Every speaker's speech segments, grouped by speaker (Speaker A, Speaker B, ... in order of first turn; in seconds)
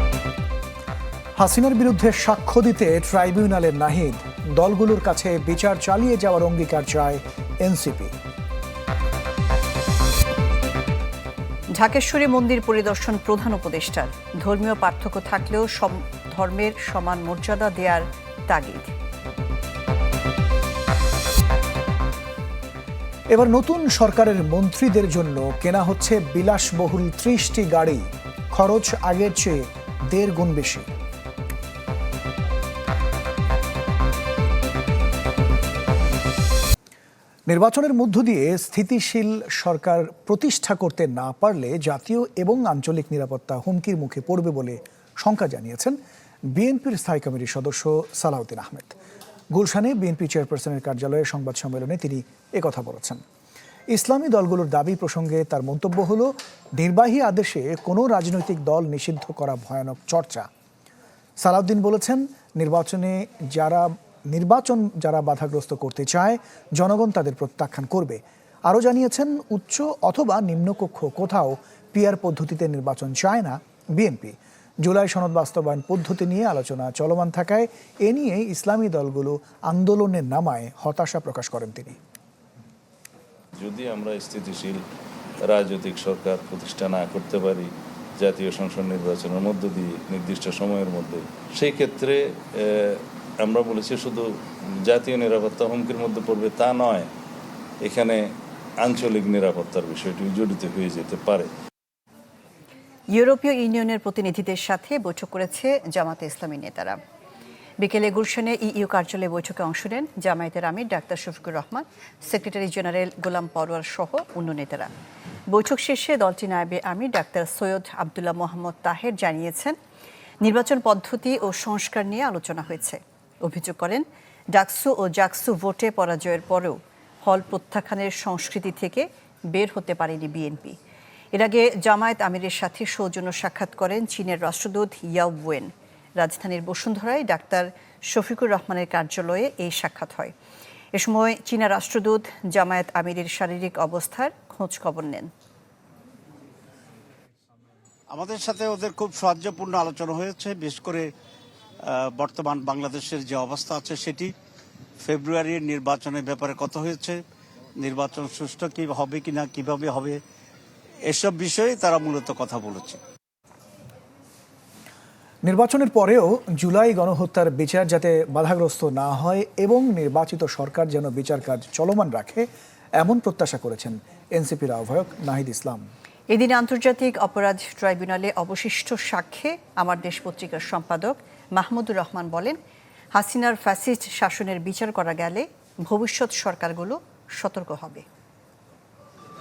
Speaker A: 1.4-8.1, 23.3-30.9, 37.5-46.0, 46.5-49.0, 49.5-53.2, 53.9-60.5, 61.4-82.0, 165.4-172.4, 173.0-175.8
Speaker B: 11.8-18.9, 103.1-107.0, 107.8-114.9, 115.5-119.7, 120.4-130.8, 131.3-140.3, 140.9-145.3, 176.3-182.6, 183.1-188.0
Speaker C: 83.6-84.8, 85.4-94.2, 94.8-97.1, 97.8-98.2, 98.8-101.5
Speaker D: 148.1-151.1, 151.9-154.3, 155.0-157.2, 157.8-160.2, 161.1-163.0